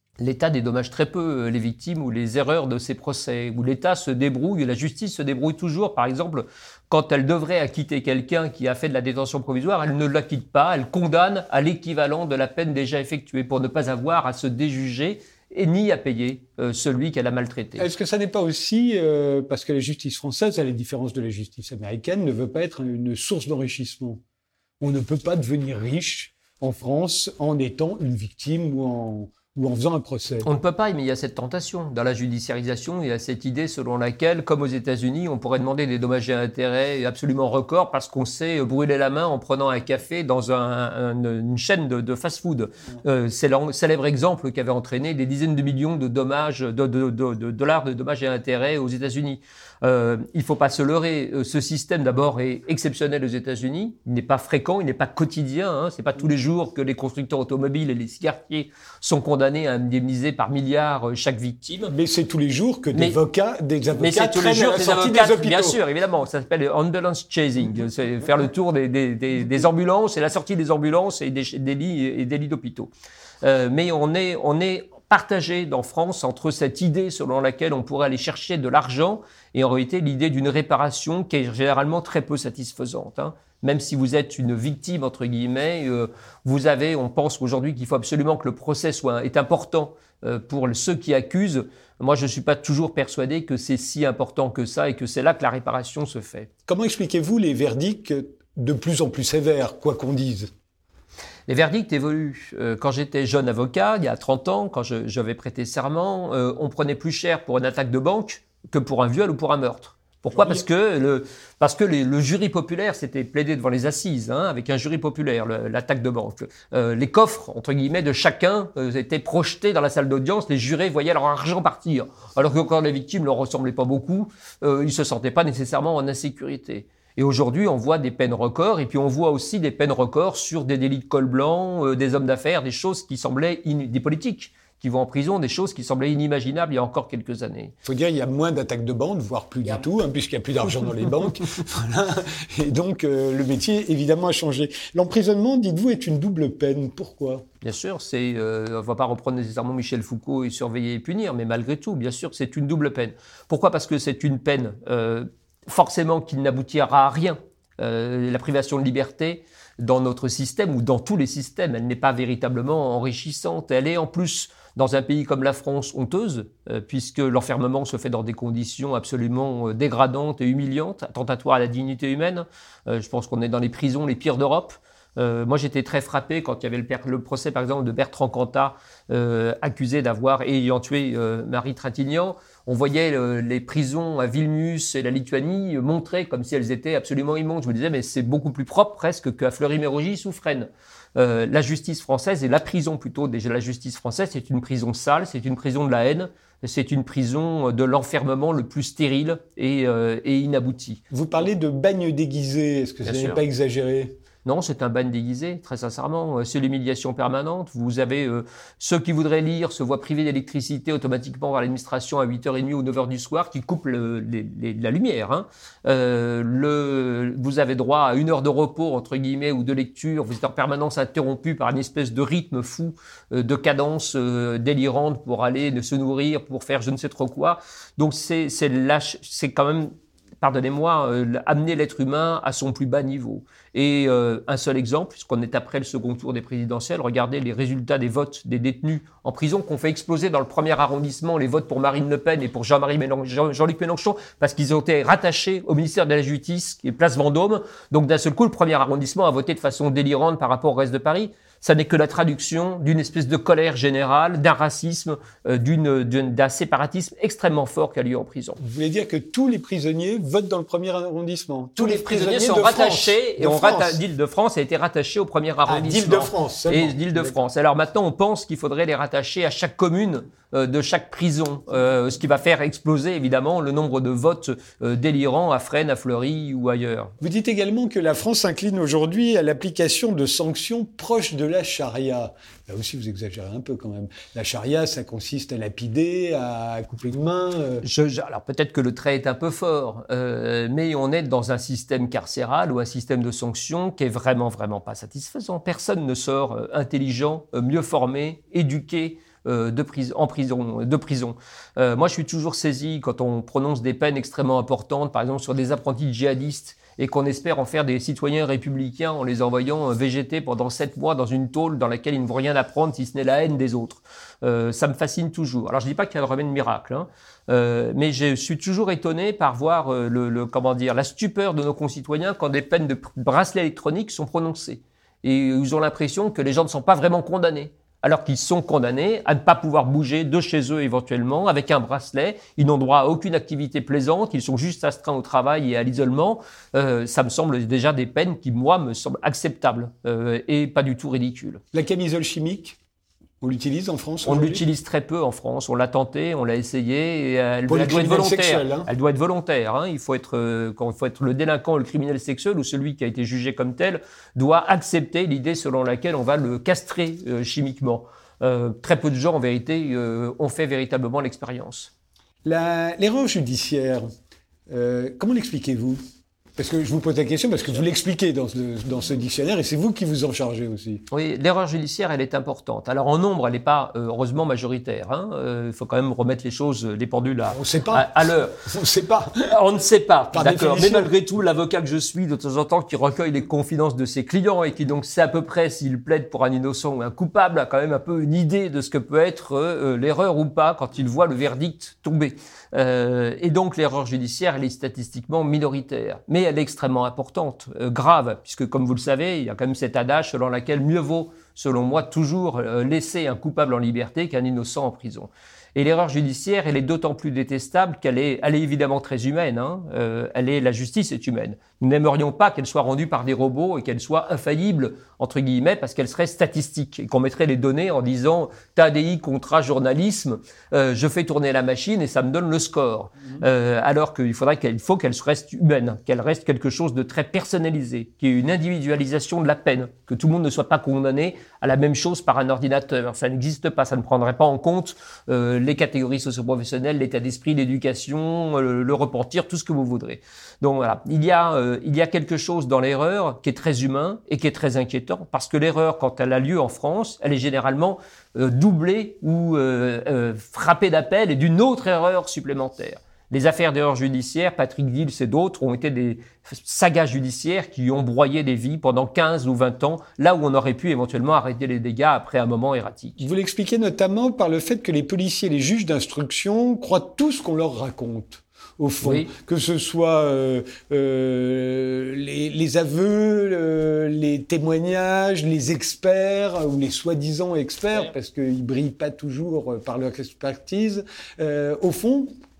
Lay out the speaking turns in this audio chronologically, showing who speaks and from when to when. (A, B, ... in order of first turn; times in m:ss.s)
0:00.2-0:17.9 A
0:17.8-0:24.2 B
0:24.8-0:30.5 B
0:30.4-1:01.9 A
1:01.9-1:05.8 B
1:04.0-1:12.9 A
1:13.4-1:36.5 A
1:36.7-1:40.5 B
1:41.5-2:17.7 A
1:50.4-1:50.6 B
2:17.8-2:27.4 B
2:27.6-3:21.0 A
3:21.1-3:24.2 B
3:23.0-3:23.4 A
3:24.4-4:18.6 A
4:18.6-4:24.0 B
4:21.8-4:37.1 A
4:25.7-4:27.3 B
4:37.2-4:47.8 B
4:47.8-5:41.6 A
5:41.7-5:42.8 B
5:43.4-5:44.6 B
5:44.2-6:01.9 A
5:47.7-5:48.9 B
6:02.4-6:04.1 B
6:04.7-6:06.0 B
6:06.6-6:11.0 B
6:11.1-6:18.6 A
6:17.5-6:18.1 B
6:18.6-6:19.5 B
6:19.5-7:43.2 A
6:20.3-6:21.1 B
7:43.2-8:02.3 B
7:49.0-7:49.3 A